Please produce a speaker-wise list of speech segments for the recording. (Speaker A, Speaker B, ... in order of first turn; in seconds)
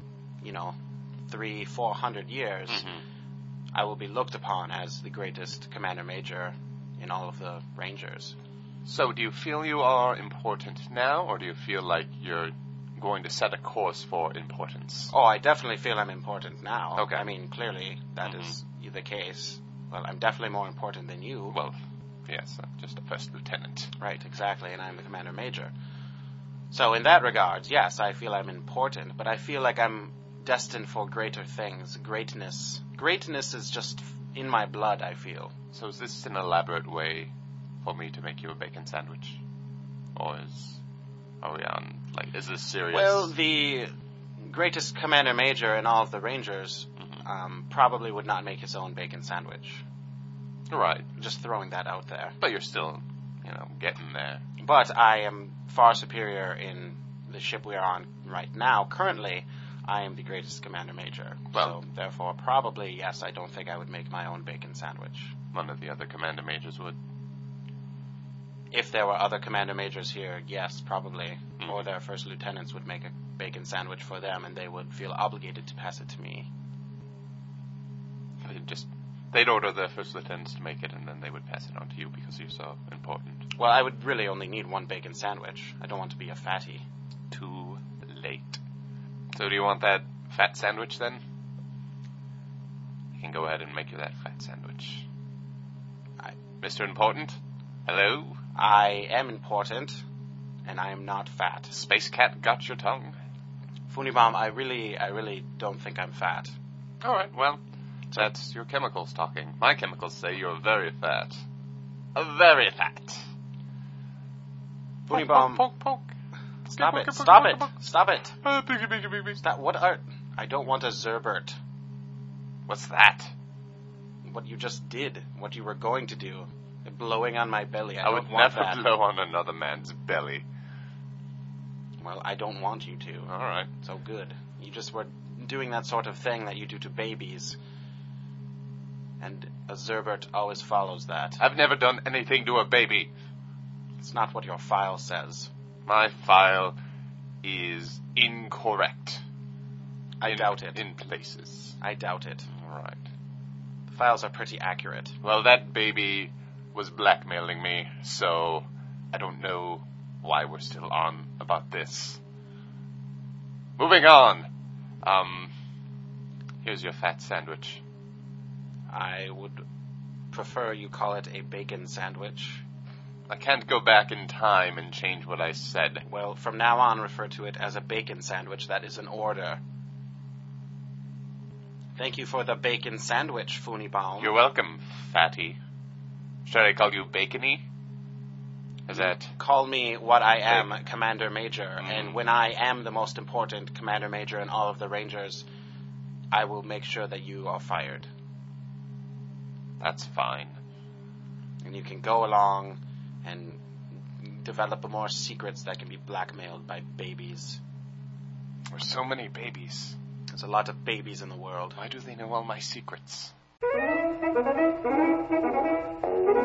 Speaker A: 0.4-2.9, 3.7-8.3, 15.1-21.6, 24.0-25.7, 26.7-35.5, 42.9-49.8, 51.1-52.4, 54.6-65.3, 68.7-76.5, 83.5-86.8, 98.5-100.0, 100.6-101.7, 103.9-106.5, 115.1-115.6, 116.7-118.4, 119.4-121.6, 124.2-128.8, 132.0-137.6, 139.2-141.4, 144.0-145.5, 150.2-150.8, 151.8-152.5, 153.9-155.2, 168.9-169.6, 170.3-172.6, 176.0-179.6, 181.9-184.4, 188.9-195.4, 196.3-198.1, 201.6-207.6, 210.3-211.8
Speaker B: 2.7-3.0, 8.8-15.1, 16.9-17.2, 18.2-18.5, 21.5-23.9, 35.7-37.3, 37.8-39.4, 40.1-40.8, 41.4-43.3, 50.7-51.1, 52.4-54.4, 61.5-61.8, 65.5-67.0, 71.6-71.9, 78.4-83.4, 87.3-88.6, 89.3-91.2, 93.2-95.0, 96.6-98.4, 101.7-103.2, 107.0-107.6, 108.1-111.4, 112.1-113.2, 115.1-116.1, 116.6-117.7, 118.4-119.4, 122.7-123.3, 128.0-130.4, 133.3-133.7, 141.4-143.1, 145.8-146.8, 147.4-149.2, 150.2-151.8, 152.5-153.0, 155.2-162.2, 163.8-164.5, 165.0-165.5, 166.6-167.8, 173.3-176.0, 184.2-185.6, 186.4-187.6, 188.8-189.3, 191.8-192.2, 199.8-200.6, 208.7-210.0, 211.8-213.3